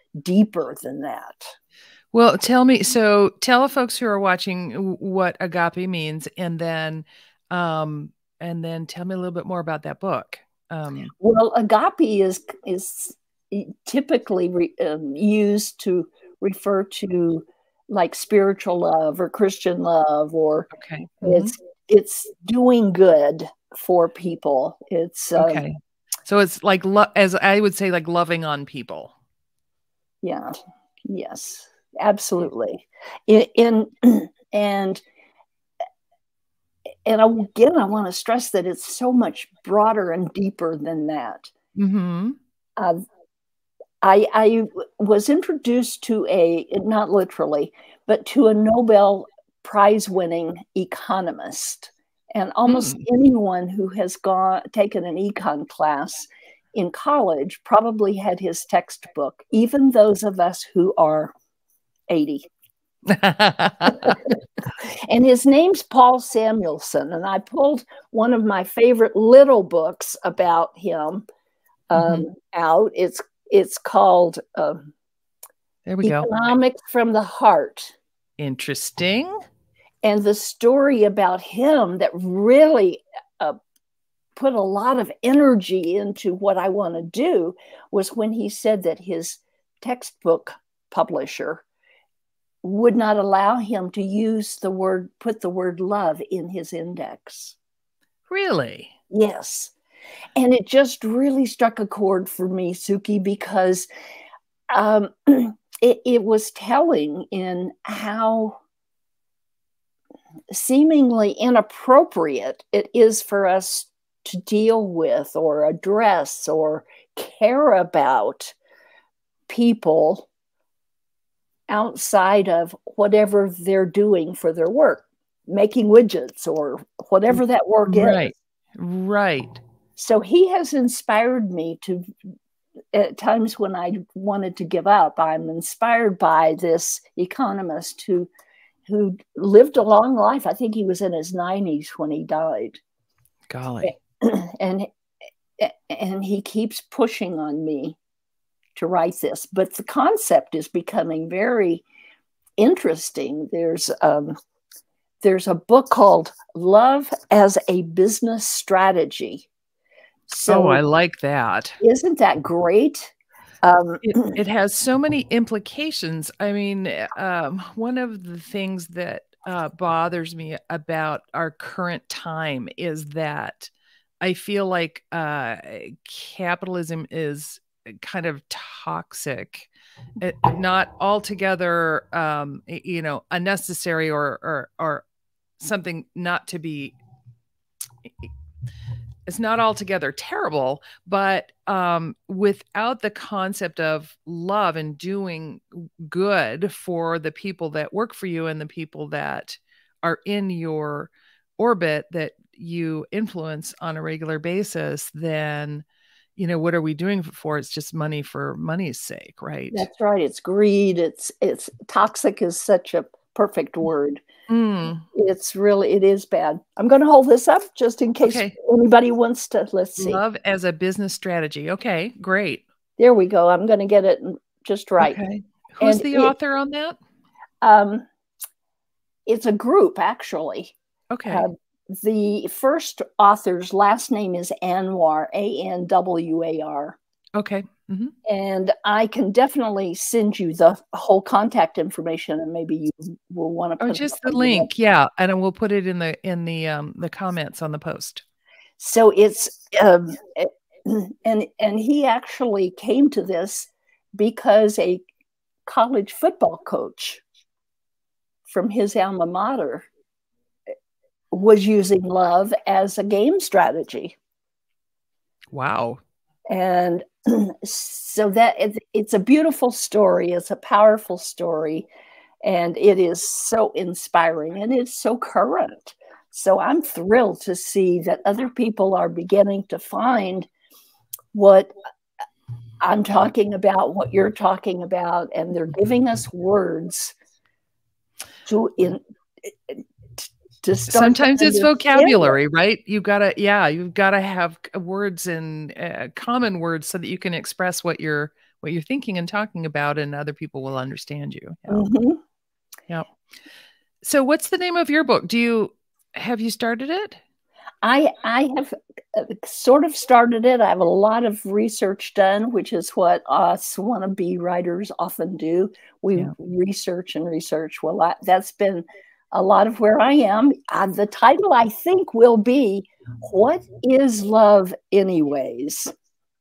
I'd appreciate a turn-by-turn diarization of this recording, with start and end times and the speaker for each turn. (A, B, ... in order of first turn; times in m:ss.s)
0:00.2-0:01.5 A
0:02.1-0:11.1 B
0:11.2-0:20.7 A
0:20.7-0:21.5 B
0:21.2-0:25.6 A
0:25.4-0:29.1 B
0:30.2-0:30.5 A
0:31.1-0:35.0 A
0:37.0-0:41.5 A
0:41.8-0:42.4 B
0:44.0-1:01.3 A
0:52.7-0:53.0 B
1:02.1-1:02.5 A
1:03.1-1:04.2 B
1:03.9-1:04.2 A
1:05.1-1:11.2 A
1:11.9-1:14.9 A
1:11.9-1:12.2 B
1:15.8-1:16.4 B
1:16.0-1:17.9 A
1:18.4-1:19.4 B
1:20.0-1:23.6 A
1:24.3-1:31.6 A
1:32.6-1:37.6 A
1:38.3-1:38.9 B
1:39.1-1:39.7 A
1:40.4-1:43.9 A
1:44.7-1:48.6 A
1:50.5-1:58.6 A
1:59.5-2:00.3 A
2:01.7-2:08.3 A
2:07.9-2:09.6 B
2:10.0-2:12.1 A
2:12.9-2:18.3 A
2:18.9-2:22.8 A
2:23.5-2:23.9 B
2:23.8-2:24.9 A
2:25.6-2:28.0 A
2:28.8-2:31.8 A
2:32.6-2:34.4 A
2:35.2-2:39.5 A
2:40.3-2:40.8 A
2:40.5-2:41.8 B
2:41.8-2:44.4 A
2:44.0-3:05.0 B
3:05.6-3:07.0 B
3:09.3-3:25.8 B
3:26.4-3:29.9 B
3:29.7-3:34.2 A
3:34.5-3:35.0 B
3:35.1-3:40.2 A
3:38.2-3:38.5 B
3:40.0-3:42.6 B
3:43.0-3:45.2 A
3:45.0-3:47.0 B
3:45.8-3:46.3 A
3:47.6-3:48.0 A
3:49.2-3:50.7 A
3:51.1-3:51.5 B
3:51.3-3:57.0 A
3:57.4-3:58.1 B
3:58.2-4:04.7 A
4:03.8-4:08.2 B
4:08.8-4:15.0 A
4:15.6-4:17.2 A
4:18.5-4:19.9 A
4:21.3-4:24.2 A
4:25.5-4:26.0 B
4:26.5-4:31.9 A
4:32.4-4:40.5 A
4:41.3-4:41.7 A
4:42.8-4:47.1 A
4:48.4-4:52.4 A
4:50.9-5:01.8 B
5:01.7-5:02.2 A
5:04.0-5:07.2 B
5:07.8-5:25.9 A